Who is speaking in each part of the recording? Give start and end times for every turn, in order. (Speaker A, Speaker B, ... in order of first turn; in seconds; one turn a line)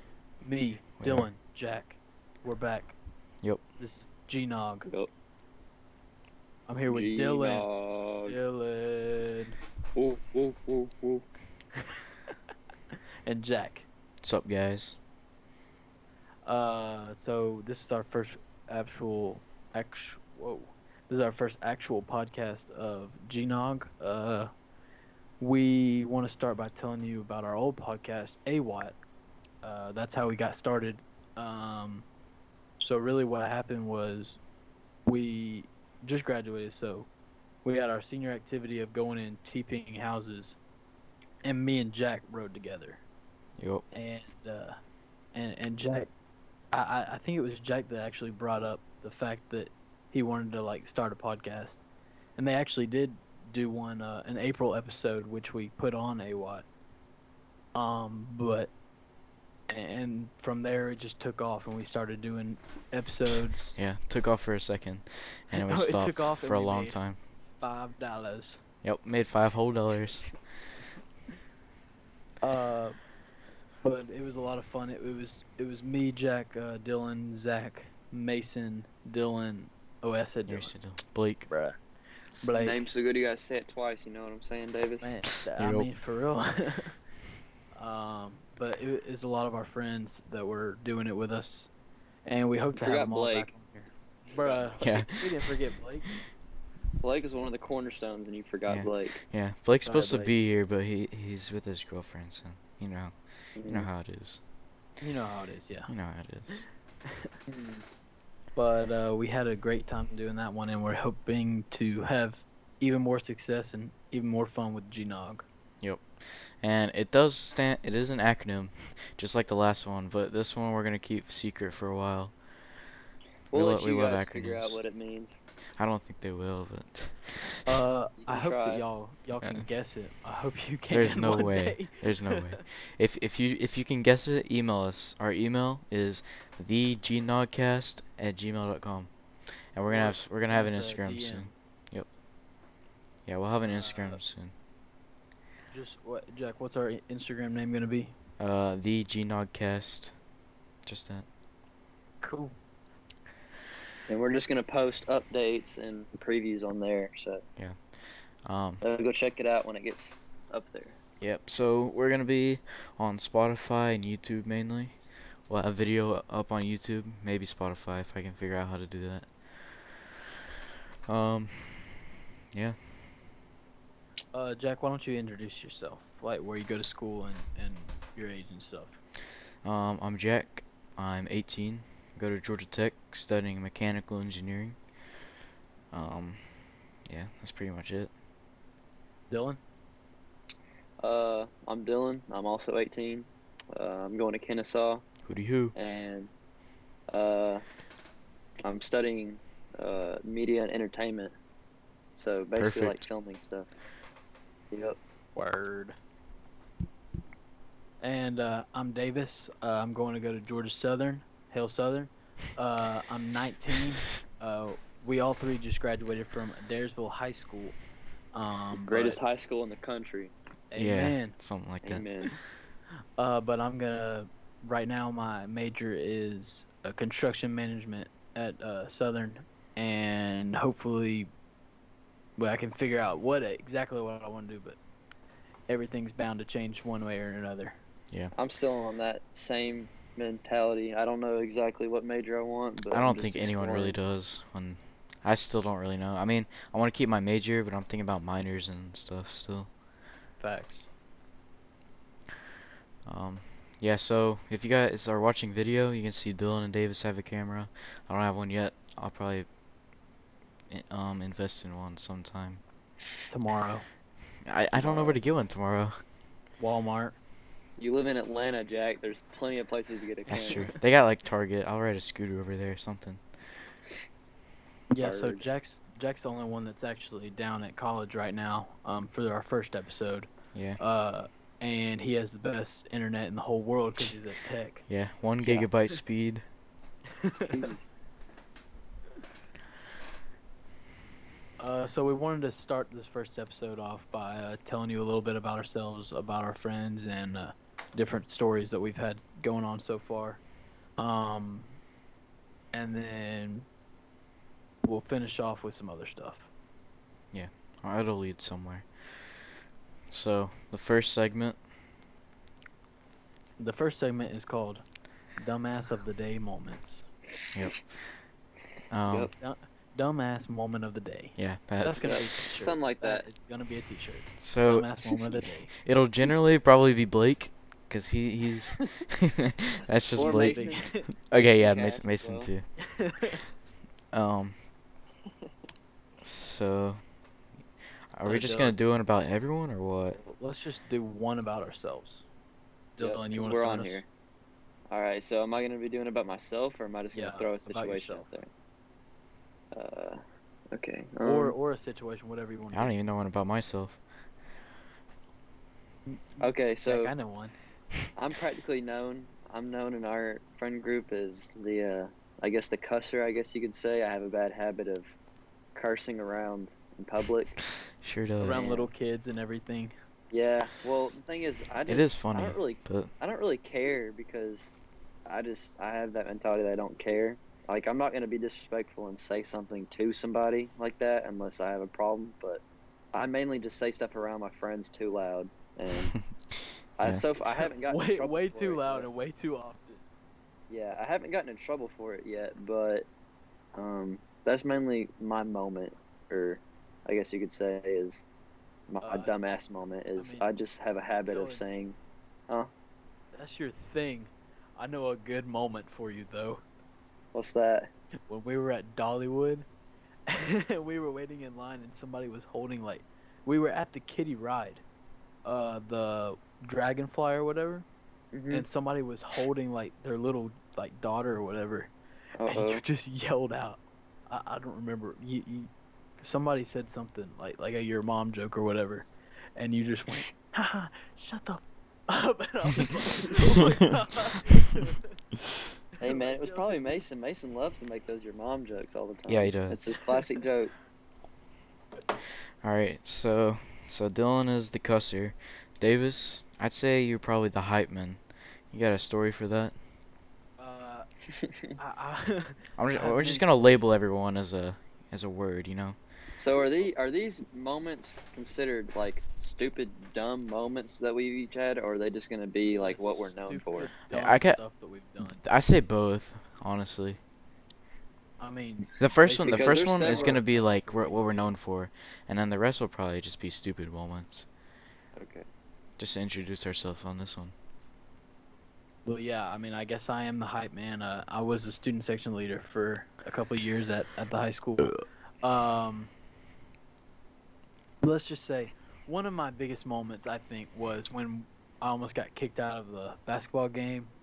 Speaker A: 0.4-3.0
Speaker B: 1.0-1.3
Speaker A: 3.8-4.9
Speaker A: 6.7-7.7
Speaker C: 6.9-8.4
Speaker A: 8.3-9.6
Speaker C: 10.0-11.2
Speaker A: 13.3-13.9
Speaker B: 14.2-15.0
Speaker A: 16.5-24.5
Speaker A: 25.4-29.0
Speaker A: 29.6-32.1
Speaker A: 32.8-34.4
Speaker A: 35.1-37.1
Speaker A: 37.6-40.6
Speaker A: 41.4-43.0
Speaker B: 43.6-43.9
Speaker A: 43.9-44.8
Speaker A: 45.3-46.1
Speaker A: 46.7-51.8
Speaker A: 52.4-56.7
Speaker A: 57.7-58.7
Speaker A: 59.7-63.8
Speaker B: 63.8-67.2
Speaker A: 65.5-67.0
Speaker A: 67.6-68.6
Speaker B: 68.8-70.3
Speaker A: 72.4-73.0
Speaker A: 73.8-80.7
Speaker B: 80.5-81.5
Speaker A: 81.5-81.8
Speaker C: 82.4-85.2
Speaker A: 82.4-82.8
Speaker A: 85.0-86.9
Speaker B: 85.6-85.9
Speaker A: 87.7-91.7
Speaker A: 92.2-96.1
Speaker C: 92.8-93.5
Speaker C: 94.3-94.8
Speaker B: 94.8-95.5
Speaker C: 97.0-99.2
Speaker B: 98.7-104.4
Speaker A: 99.8-100.3
Speaker C: 103.6-103.9
Speaker A: 105.0-105.9
Speaker B: 105.9-106.7
Speaker A: 106.5-107.3
Speaker C: 107.5-107.8
Speaker A: 108.5-115.5
Speaker B: 115.8-122.4
Speaker C: 123.5-125.4
Speaker B: 123.5-124.8
Speaker B: 125.8-127.8
Speaker A: 127.7-132.6
Speaker C: 128.2-128.9
Speaker B: 129.4-129.7
Speaker B: 130.9-139.1
Speaker B: 139.7-142.1
Speaker A: 139.9-141.5
Speaker B: 143.3-144.5
Speaker A: 143.7-144.2
Speaker A: 145.7-148.2
Speaker B: 148.4-150.1
Speaker B: 150.8-151.3
Speaker A: 152.2-152.6
Speaker C: 154.1-157.4
Speaker B: 158.4-158.8
Speaker C: 158.8-161.0
Speaker B: 161.2-165.0
Speaker B: 165.5-170.1
Speaker B: 171.1-172.8
Speaker A: 174.3-179.0
Speaker B: 179.6-184.8
Speaker B: 185.9-186.5
Speaker B: 187.1-188.1
Speaker A: 189.3-189.6
Speaker C: 191.0-195.1
Speaker B: 195.2-195.8
Speaker C: 195.8-196.3
Speaker C: 197.1-197.6
Speaker C: 198.6-201.3
Speaker C: 202.2-203.7
Speaker B: 202.6-203.1
Speaker C: 204.7-205.0
Speaker A: 205.4-206.0
Speaker A: 208.0-217.8
Speaker A: 218.3-219.2
Speaker C: 218.9-220.3
Speaker A: 220.7-221.4
Speaker B: 220.8-222.1
Speaker C: 221.8-222.3
Speaker A: 223.2-231.3
Speaker A: 232.4-234.8
Speaker A: 235.7-237.8
Speaker C: 238.3-244.0
Speaker B: 242.9-249.7
Speaker A: 250.4-250.9
Speaker B: 253.1-259.5
Speaker B: 260.7-262.6
Speaker A: 263.3-263.9
Speaker B: 264.5-265.9
Speaker C: 264.7-265.2
Speaker A: 266.6-267.2
Speaker C: 267.8-270.7
Speaker A: 270.3-270.8
Speaker B: 270.3-273.2
Speaker A: 274.9-284.8
Speaker C: 275.0-275.4
Speaker B: 280.5-280.8
Speaker B: 284.9-286.4
Speaker A: 285.4-285.9
Speaker A: 287.2-287.7
Speaker C: 287.5-287.9
Speaker A: 291.6-300.4
Speaker A: 301.0-301.8
Speaker A: 302.7-303.7
Speaker A: 304.8-306.5
Speaker B: 307.3-309.4
Speaker B: 310.1-311.6
Speaker A: 313.6-314.8
Speaker A: 315.4-317.1
Speaker B: 318.9-319.3
Speaker A: 319.4-325.7
Speaker B: 321.4-322.3
Speaker C: 322.0-323.2
Speaker B: 324.4-324.9
Speaker B: 325.8-332.7
Speaker C: 330.1-332.5
Speaker A: 330.2-331.1
Speaker A: 332.8-333.4
Speaker B: 334.1-334.6
Speaker B: 336.2-337.0
Speaker B: 338.1-340.2
Speaker A: 338.2-338.8
Speaker A: 340.2-342.2
Speaker A: 343.0-344.0
Speaker C: 343.0-344.1
Speaker C: 344.9-348.5
Speaker A: 347.1-348.3
Speaker C: 349.7-351.6
Speaker A: 351.2-352.9
Speaker B: 352.7-354.0
Speaker A: 356.1-357.6
Speaker C: 356.4-357.1
Speaker C: 358.2-365.1
Speaker C: 365.8-367.6
Speaker B: 368.0-368.7
Speaker A: 368.4-369.9
Speaker C: 368.5-368.9
Speaker C: 370.3-374.7
Speaker B: 371.9-373.1
Speaker C: 375.3-382.6
Speaker C: 383.1-386.1
Speaker B: 386.1-387.2
Speaker C: 387.0-389.1
Speaker A: 387.9-390.0
Speaker C: 390.7-393.1
Speaker C: 393.8-398.2
Speaker C: 398.9-402.0
Speaker A: 399.0-399.3
Speaker A: 400.2-400.5
Speaker A: 401.2-401.6
Speaker A: 403.3-406.6
Speaker C: 407.3-407.9
Speaker A: 408.3-409.7
Speaker A: 410.3-414.8
Speaker A: 415.4-417.9
Speaker C: 418.3-418.6
Speaker A: 418.5-421.9
Speaker C: 422.4-422.8
Speaker A: 422.5-435.2
Speaker A: 436.0-437.0
Speaker C: 436.0-440.7
Speaker B: 439.3-439.9
Speaker B: 442.6-449.8
Speaker A: 450.6-451.1
Speaker C: 451.4-451.8
Speaker A: 451.8-453.8
Speaker B: 452.8-456.0
Speaker C: 456.4-463.9
Speaker A: 462.8-465.4
Speaker B: 464.1-464.6
Speaker B: 465.2-467.2
Speaker A: 468.4-471.6
Speaker B: 469.0-474.5
Speaker C: 469.4-470.4
Speaker C: 475.2-475.5
Speaker B: 476.0-477.5
Speaker A: 479.1-486.1
Speaker A: 488.0-494.1